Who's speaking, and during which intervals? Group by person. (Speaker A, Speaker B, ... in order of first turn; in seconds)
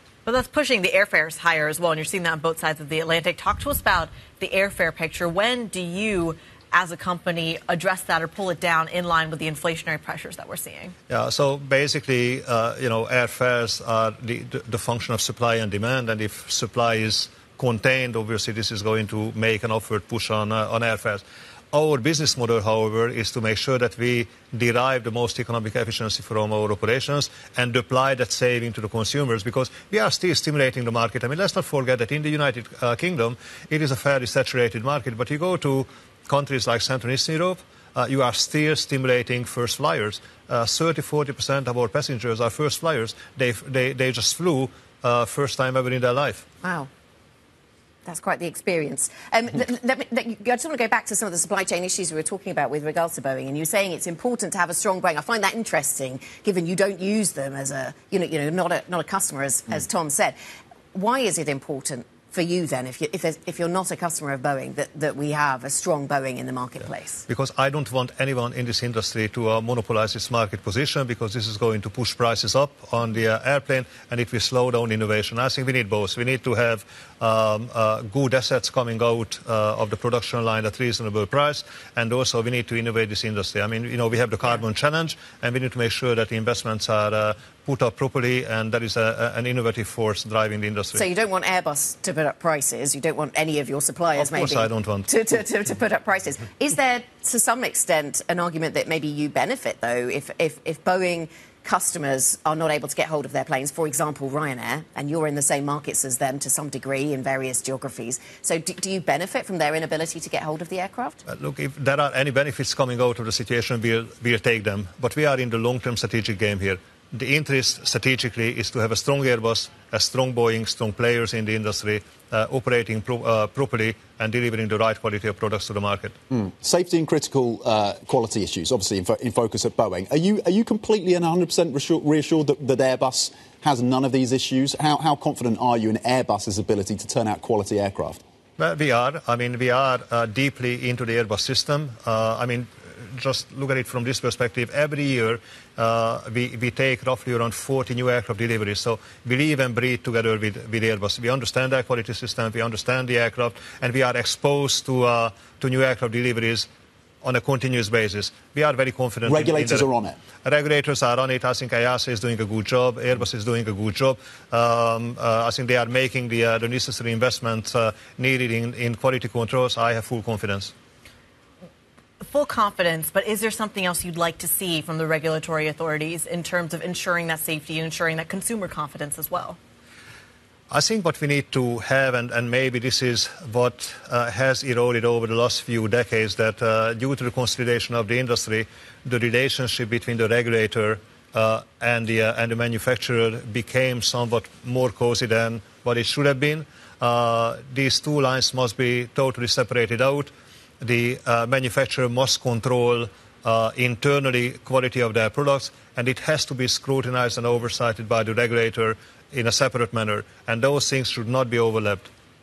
Speaker A: 0.2-10.9, 172.2-179.6
Speaker B: 11.1-46.5, 67.3-91.0, 94.1-95.1, 111.3-126.2, 138.6-156.7, 157.2-159.9, 160.4-170.7, 180.7-212.1
Speaker C: 46.6-46.9, 48.0-60.4, 60.9-67.2, 90.9-111.2
Speaker D: 126.3-138.2, 159.2-160.2